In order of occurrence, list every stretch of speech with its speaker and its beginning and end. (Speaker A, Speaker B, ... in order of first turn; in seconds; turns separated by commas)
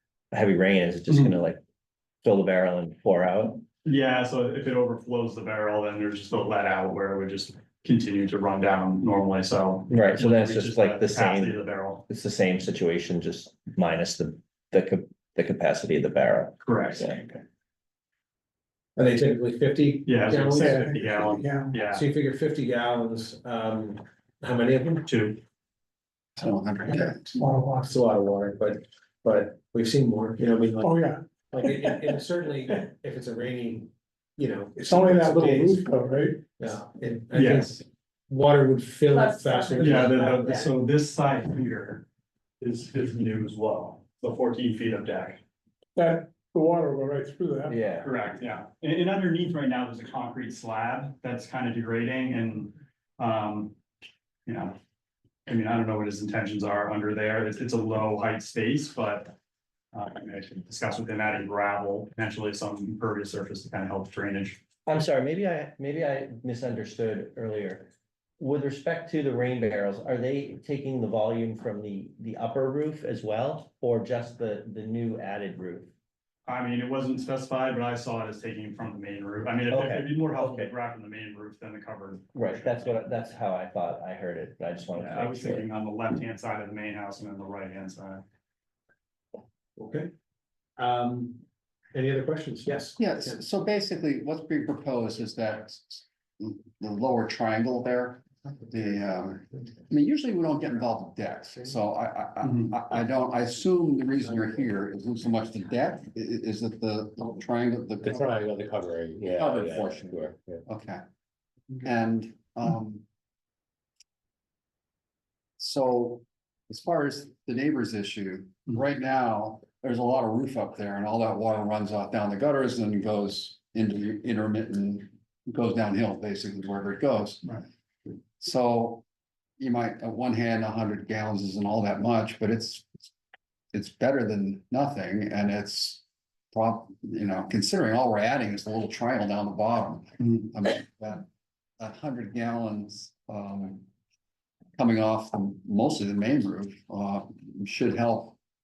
Speaker A: 0.3-1.6, Speaker A: 2.2-3.6, Speaker B: 3.8-12.0, Speaker A: 9.9-17.2, Speaker B: 16.6-17.4, Speaker C: 18.9-21.2, Speaker B: 20.0-22.1, Speaker D: 20.6-21.9, Speaker C: 21.9-25.1, Speaker B: 25.1-25.4, Speaker E: 26.4-27.2, Speaker D: 27.1-28.0, Speaker C: 27.9-35.9, Speaker D: 30.8-32.1, Speaker D: 34.8-36.5, Speaker C: 36.6-40.6, Speaker B: 37.3-37.8, Speaker B: 39.8-42.0, Speaker B: 42.6-45.4, Speaker D: 46.0-48.0, Speaker A: 47.7-48.1, Speaker B: 48.0-53.7, Speaker B: 54.5-54.8, Speaker B: 55.5-59.3, Speaker B: 59.9-64.6, Speaker A: 64.8-67.9, Speaker A: 68.4-75.9, Speaker B: 76.5-83.0, Speaker A: 79.7-80.7, Speaker A: 82.3-85.7, Speaker B: 85.0-88.2, Speaker C: 89.8-90.1, Speaker C: 90.8-93.3, Speaker E: 93.0-108.3, Speaker B: 102.4-102.7, Speaker F: 108.0-110.6, Speaker E: 109.4-111.0, Speaker E: 111.8-113.0, Speaker E: 115.6-127.6, Speaker E: 128.4-129.0, Speaker E: 129.6-132.8, Speaker E: 133.7-136.0, Speaker E: 136.5-141.2, Speaker E: 141.8-143.8, Speaker E: 144.8-148.3